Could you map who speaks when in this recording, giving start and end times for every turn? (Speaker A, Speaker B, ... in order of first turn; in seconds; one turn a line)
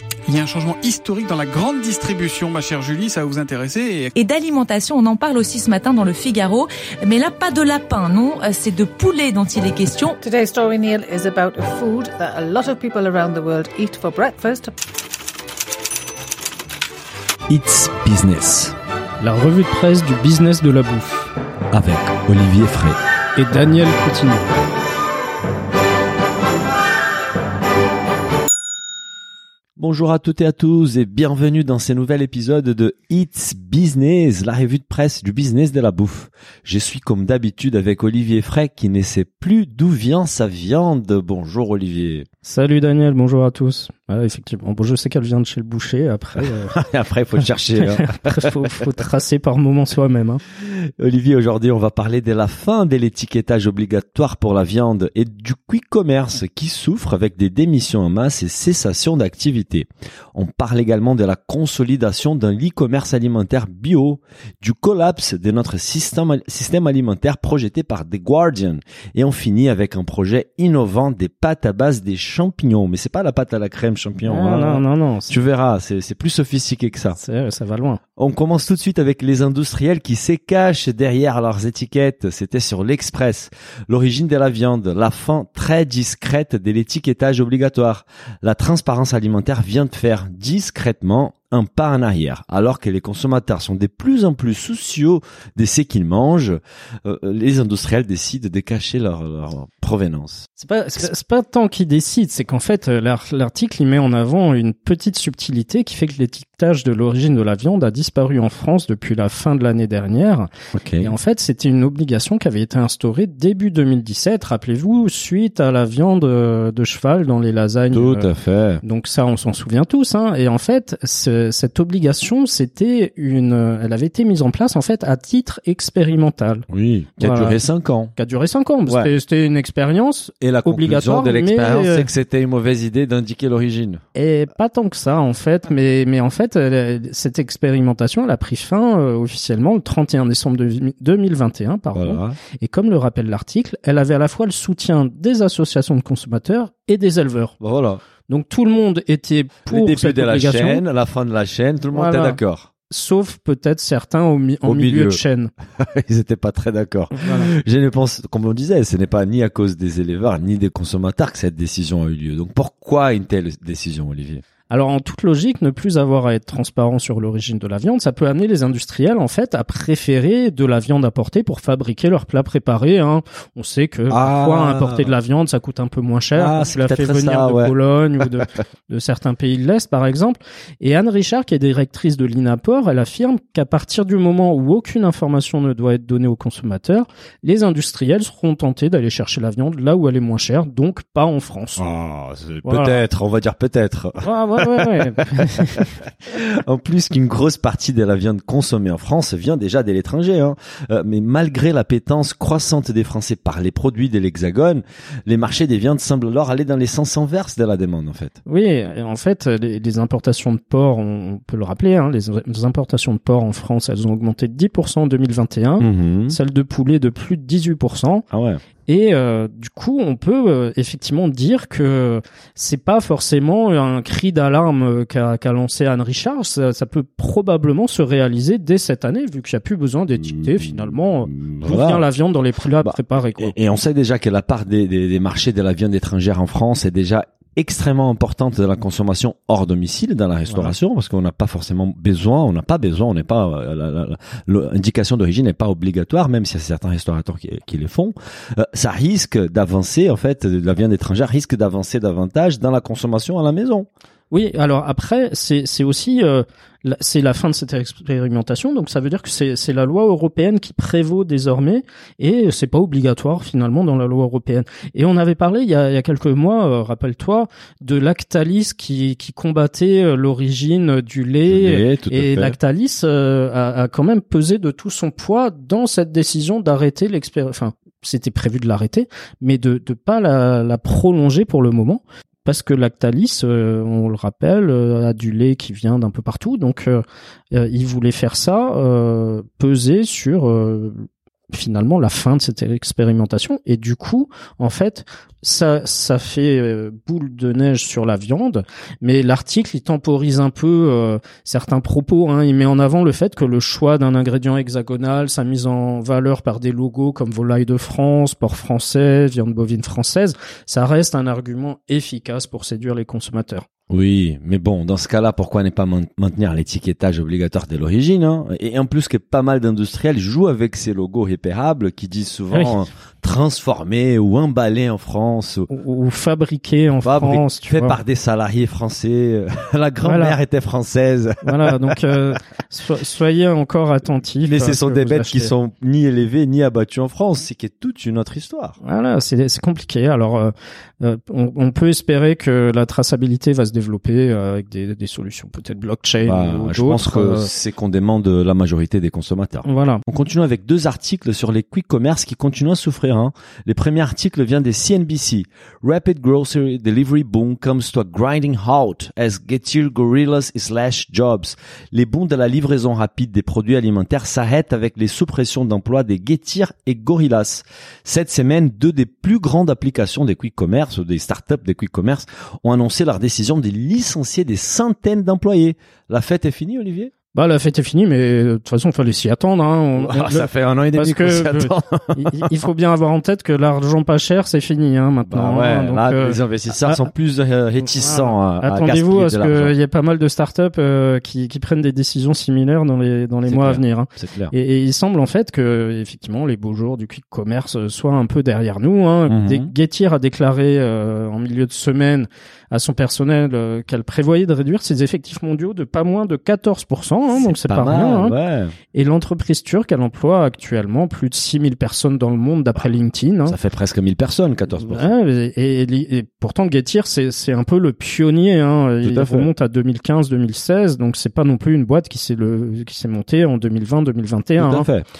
Speaker A: 0.3-4.1
Speaker B: 4.2-10.2
Speaker C: 10.2-14.7
Speaker D: 17.5-18.8
Speaker E: 19.2-21.3
Speaker D: 21.7-23.0
Speaker E: 23.4-24.5
Speaker D: 29.8-42.3
Speaker E: 42.4-46.8
Speaker D: 46.4-48.8
Speaker E: 47.8-50.4
Speaker D: 50.6-77.2
Speaker E: 74.3-75.3
Speaker E: 77.2-78.0
Speaker D: 78.2-100.5
Speaker E: 100.6-110.5
Speaker D: 110.7-111.1
Speaker E: 111.0-118.3
Speaker D: 117.9-118.8
Speaker E: 118.8-126.7
Speaker D: 126.7-128.1
Speaker E: 127.2-127.6
Speaker E: 128.2-132.1
Speaker D: 128.9-129.1
Speaker D: 130.4-134.0
Speaker E: 134.1-147.6
Speaker D: 141.9-142.4
Speaker D: 147.6-148.0
Speaker E: 148.3-150.8
Speaker D: 149.7-152.7
Speaker E: 151.9-152.4
Speaker E: 152.9-155.5
Speaker D: 154.6-155.2
Speaker D: 155.8-164.4
Speaker E: 157.1-157.5
Speaker E: 164.7-191.8
Speaker D: 174.1-175.1
Speaker D: 176.3-178.5
Speaker D: 191.8-208.4
Speaker E: 192.6-193.0
Speaker E: 194.2-195.9
Speaker E: 208.4-218.2
Speaker D: 215.8-216.3
Speaker D: 218.3-218.6
Speaker E: 218.9-233.5
Speaker D: 230.3-232.0
Speaker D: 232.8-253.9
Speaker E: 254.3-313.6
Speaker D: 271.4-272.6
Speaker D: 313.9-325.7
Speaker E: 325.7-328.0
Speaker D: 327.0-332.2
Speaker E: 330.0-330.4
Speaker E: 331.4-335.5
Speaker D: 334.4-338.8
Speaker E: 338.8-347.5
Speaker D: 346.2-377.1
Speaker E: 349.6-350.0
Speaker E: 377.3-387.1
Speaker D: 380.0-382.6
Speaker D: 385.2-389.7
Speaker E: 387.9-408.3
Speaker D: 393.4-394.5
Speaker D: 399.3-399.7
Speaker D: 407.3-408.7
Speaker E: 408.9-413.5
Speaker D: 413.4-415.1
Speaker E: 414.8-424.9
Speaker D: 419.0-419.5
Speaker D: 424.6-425.0